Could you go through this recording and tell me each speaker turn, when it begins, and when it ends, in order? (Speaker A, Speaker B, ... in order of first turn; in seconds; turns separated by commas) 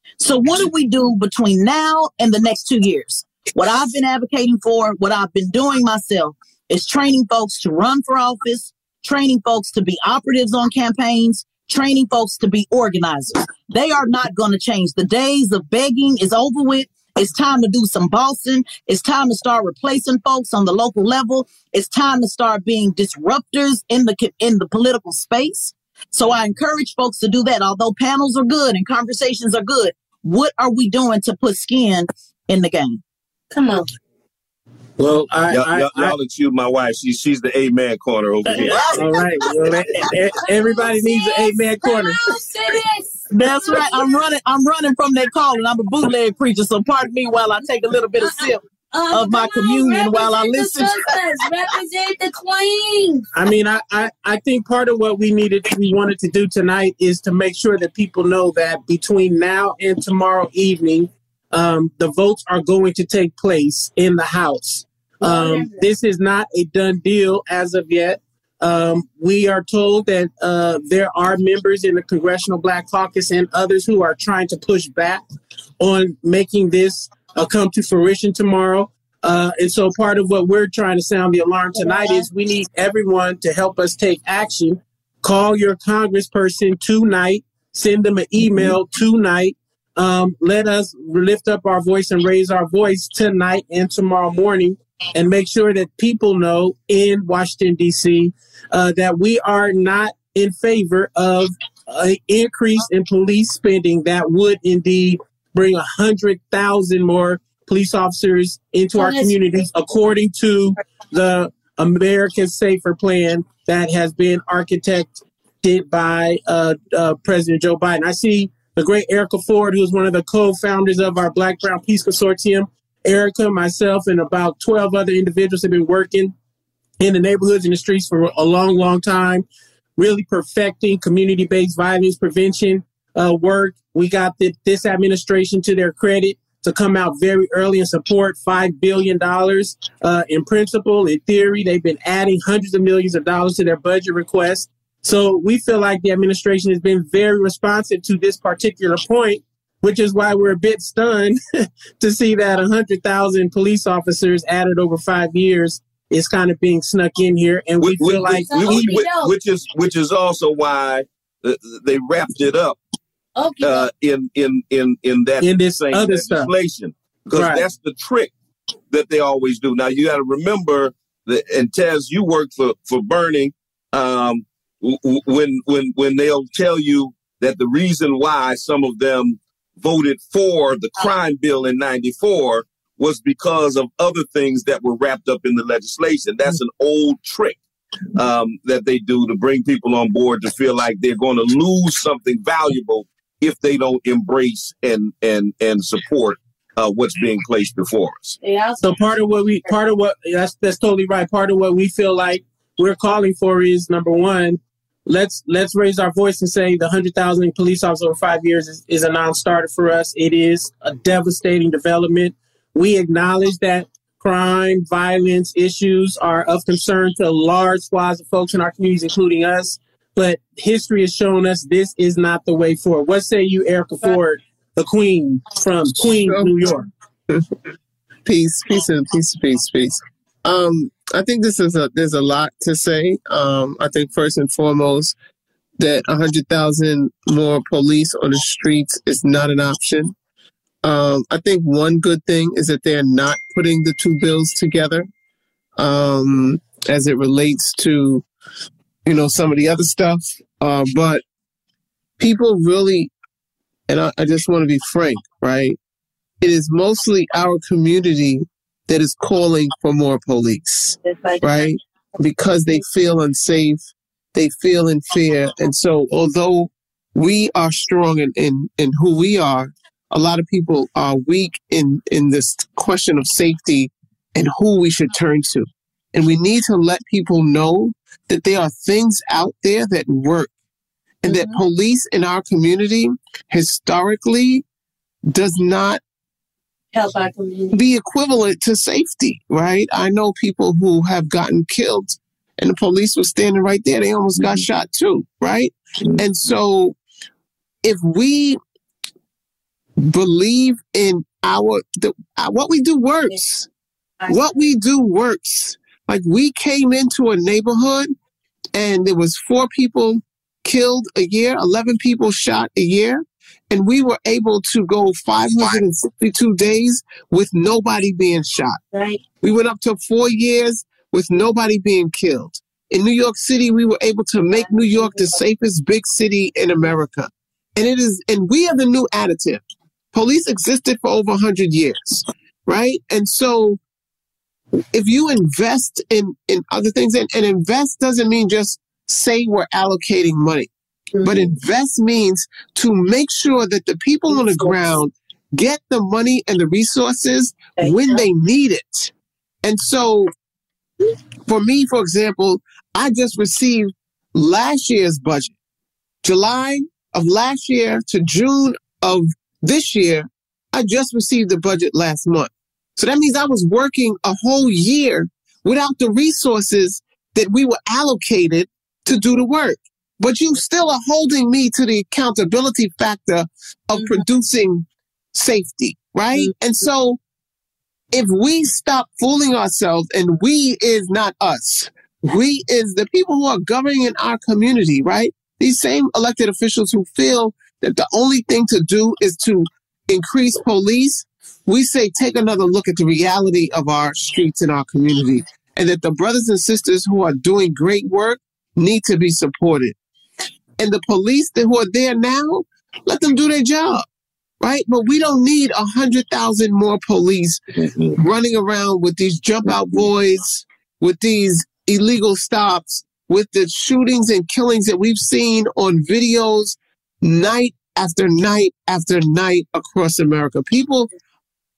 Speaker A: 0.2-33.0, Speaker B: 33.5-33.9, Speaker C: 35.0-36.1, Speaker D: 35.5-39.2, Speaker B: 38.6-39.6, Speaker C: 38.9-42.2, Speaker B: 40.4-44.2, Speaker A: 43.3-48.6, Speaker B: 48.2-53.2, Speaker A: 49.1-51.1, Speaker C: 53.3-75.2, Speaker B: 65.2-65.9, Speaker C: 75.8-126.3, Speaker B: 81.7-82.3, Speaker B: 108.9-109.6, Speaker C: 127.0-129.4, Speaker C: 130.0-151.4, Speaker C: 152.0-158.9, Speaker D: 157.8-162.8, Speaker B: 158.4-159.3, Speaker B: 163.3-163.9, Speaker D: 163.6-168.3, Speaker C: 165.4-166.5, Speaker C: 167.3-167.7, Speaker D: 168.9-187.6, Speaker D: 188.1-198.4, Speaker B: 198.4-199.1, Speaker C: 198.8-226.9, Speaker E: 226.0-226.5, Speaker E: 228.2-235.1, Speaker E: 235.8-240.1, Speaker E: 240.8-245.1, Speaker E: 245.8-248.2, Speaker E: 249.1-251.2, Speaker E: 252.2-253.1, Speaker E: 253.9-255.8, Speaker E: 256.4-263.8, Speaker B: 261.0-261.8, Speaker E: 264.3-280.5, Speaker E: 281.2-284.6, Speaker B: 281.2-281.6, Speaker E: 285.3-286.0, Speaker B: 286.9-287.7, Speaker E: 287.7-297.0, Speaker D: 294.4-294.6, Speaker E: 297.8-298.6, Speaker E: 300.0-303.7, Speaker B: 304.2-304.6, Speaker E: 304.3-308.1, Speaker E: 308.7-318.8, Speaker B: 318.9-319.2, Speaker E: 319.4-329.6, Speaker B: 324.5-325.4, Speaker E: 330.1-333.8, Speaker E: 334.9-349.1, Speaker B: 341.1-341.5, Speaker B: 344.3-345.0, Speaker B: 347.8-348.2, Speaker E: 349.6-350.3, Speaker E: 351.5-355.5, Speaker E: 356.2-377.2, Speaker B: 373.9-374.2, Speaker E: 378.1-399.9, Speaker E: 400.8-404.1, Speaker E: 404.6-407.6, Speaker D: 407.8-408.2, Speaker E: 408.1-421.1, Speaker D: 409.7-410.1